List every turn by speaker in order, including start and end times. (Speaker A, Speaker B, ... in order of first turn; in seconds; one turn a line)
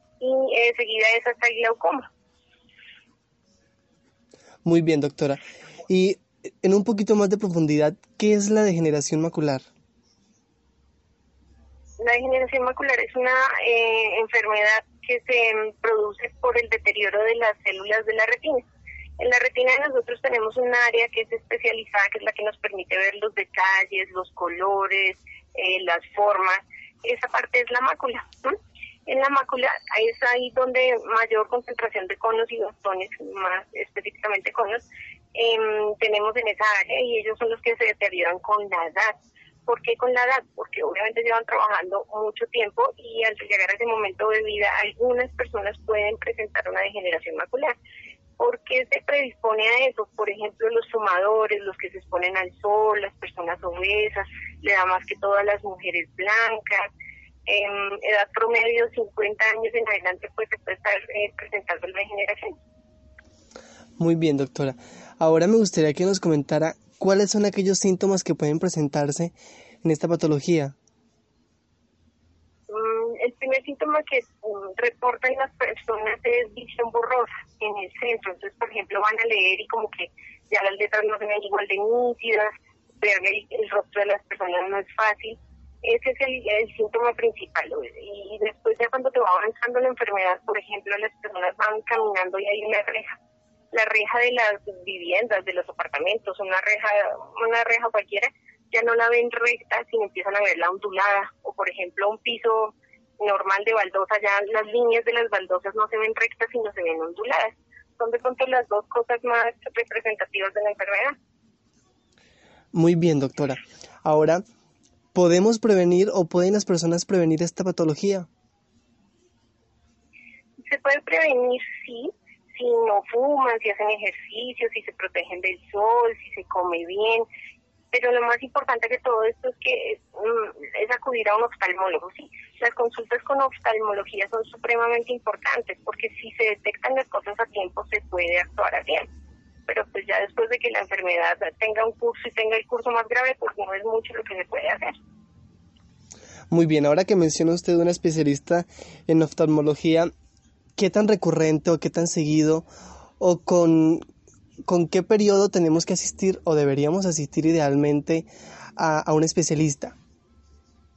Speaker A: 0.2-2.1
Speaker B: 4.6-9.6
Speaker A: 12.0-18.6
Speaker A: 19.2-47.7
Speaker A: 48.4-56.9
Speaker A: 57.5-62.5
Speaker B: 64.0-70.7
Speaker A: 72.7-93.2
Speaker A: 93.7-111.2
Speaker B: 112.7-114.4
Speaker B: 115.1-118.3
Speaker A: 120.6-127.3
Speaker A: 127.9-139.1
Speaker A: 139.7-144.9
Speaker B: 146.5-150.1
Speaker B: 150.8-152.7
Speaker B: 153.2-154.1
Speaker B: 154.6-159.9